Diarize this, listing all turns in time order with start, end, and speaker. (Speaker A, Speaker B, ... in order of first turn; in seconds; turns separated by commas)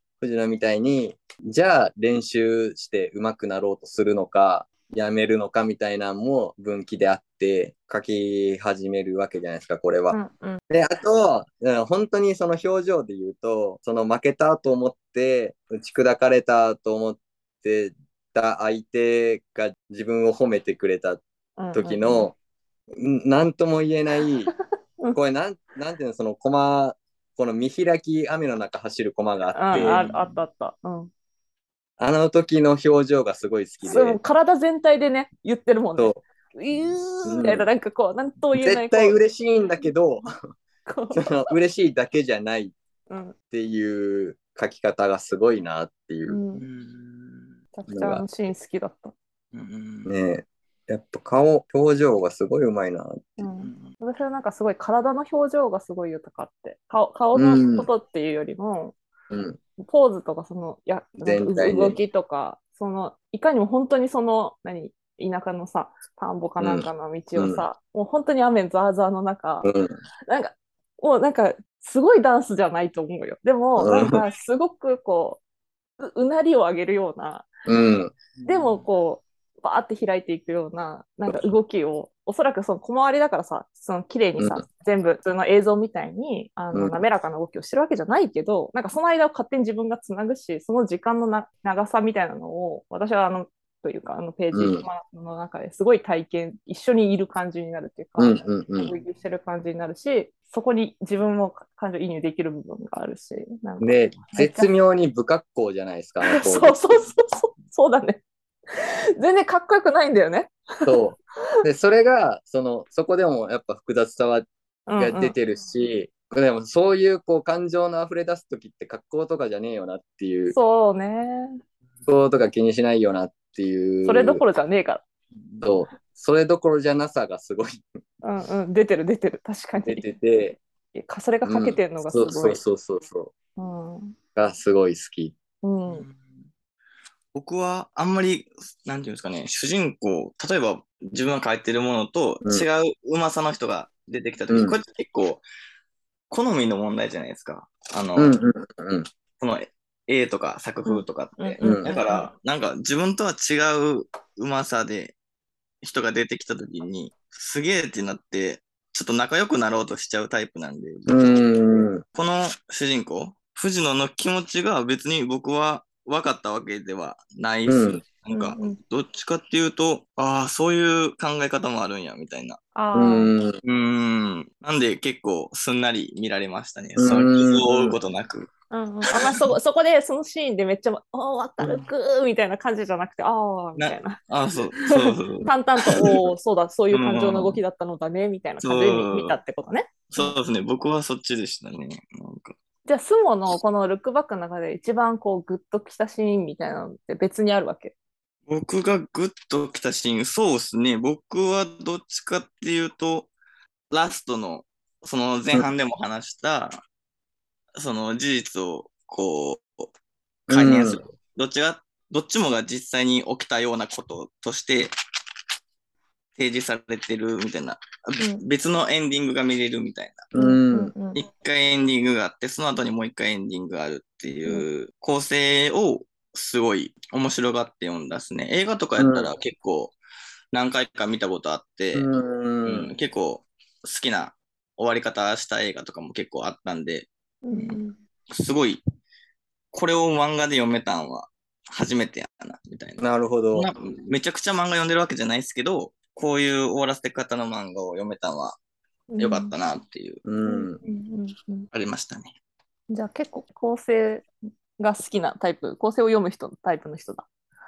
Speaker A: 0.2-10.2, Speaker B: 10.1-10.6, Speaker A: 10.7-21.2, Speaker B: 21.6-22.3, Speaker A: 21.7-22.3, Speaker A: 22.9-24.5, Speaker A: 25.1-30.1, Speaker B: 29.5-31.1, Speaker C: 29.7-30.4, Speaker A: 32.0-34.2, Speaker B: 33.8-39.2, Speaker A: 37.2-37.6, Speaker A: 38.6-40.3, Speaker B: 40.9-41.4, Speaker A: 41.1-42.7, Speaker B: 43.1-43.3, Speaker A: 43.5-46.4, Speaker B: 46.3-46.6, Speaker C: 46.6-47.5, Speaker B: 47.7-49.1, Speaker A: 47.9-48.2, Speaker C: 49.5-50.1, Speaker A: 50.0-53.4, Speaker B: 53.4-59.0, Speaker C: 53.6-53.9, Speaker A: 57.3-57.9, Speaker A: 59.3-59.6, Speaker B: 59.8-69.7, Speaker A: 61.2-62.0, Speaker A: 66.6-67.6, Speaker A: 69.6-69.9, Speaker B: 70.3-75.4, Speaker A: 73.8-74.2, Speaker B: 76.0-77.5, Speaker A: 77.7-78.1, Speaker C: 78.4-78.8, Speaker B: 78.5-104.7, Speaker A: 84.4-84.6, Speaker A: 94.5-94.8, Speaker A: 98.2-98.9, Speaker A: 103.8-107.0, Speaker B: 106.2-110.9, Speaker A: 110.8-120.5, Speaker B: 114.9-115.3, Speaker B: 120.5-121.6, Speaker A: 122.1-124.4, Speaker B: 124.0-125.0, Speaker A: 125.6-127.8, Speaker B: 128.2-130.1, Speaker A: 129.8-130.6, Speaker B: 130.9-132.6, Speaker A: 131.4-133.3, Speaker B: 133.6-134.2, Speaker A: 134.3-135.4, Speaker B: 135.6-136.1, Speaker C: 135.9-136.4, Speaker C: 137.3-145.4, Speaker A: 144.5-144.8, Speaker C: 146.3-148.3, Speaker A: 148.2-149.1, Speaker C: 149.4-155.2, Speaker B: 150.8-152.3, Speaker A: 151.6-151.9, Speaker C: 155.8-172.6, Speaker A: 161.1-162.0, Speaker A: 167.7-168.0, Speaker B: 168.3-168.8, Speaker B: 172.7-173.3, Speaker A: 172.9-173.6, Speaker C: 173.6-178.5, Speaker A: 177.0-178.0, Speaker B: 178.7-184.2, Speaker C: 183.8-186.2, Speaker B: 184.8-190.4, Speaker C: 186.9-187.6, Speaker C: 188.6-189.3, Speaker C: 190.1-192.6, Speaker B: 192.8-197.9, Speaker C: 198.5-203.3, Speaker C: 203.9-206.8, Speaker C: 207.8-209.9, Speaker A: 210.5-211.0, Speaker C: 210.5-214.9, Speaker C: 216.3-220.3, Speaker A: 220.3-220.9, Speaker B: 220.3-221.2, Speaker C: 221.1-229.9, Speaker A: 229.0-229.3, Speaker C: 230.5-232.1, Speaker A: 231.9-232.9, Speaker C: 232.6-238.8, Speaker B: 237.4-238.0, Speaker C: 239.7-248.6, Speaker A: 243.0-243.7, Speaker B: 249.1-249.5, Speaker C: 249.2-250.2, Speaker A: 250.2-250.8, Speaker B: 250.4-251.7, Speaker C: 251.7-252.3, Speaker B: 252.9-254.3, Speaker B: 254.8-257.3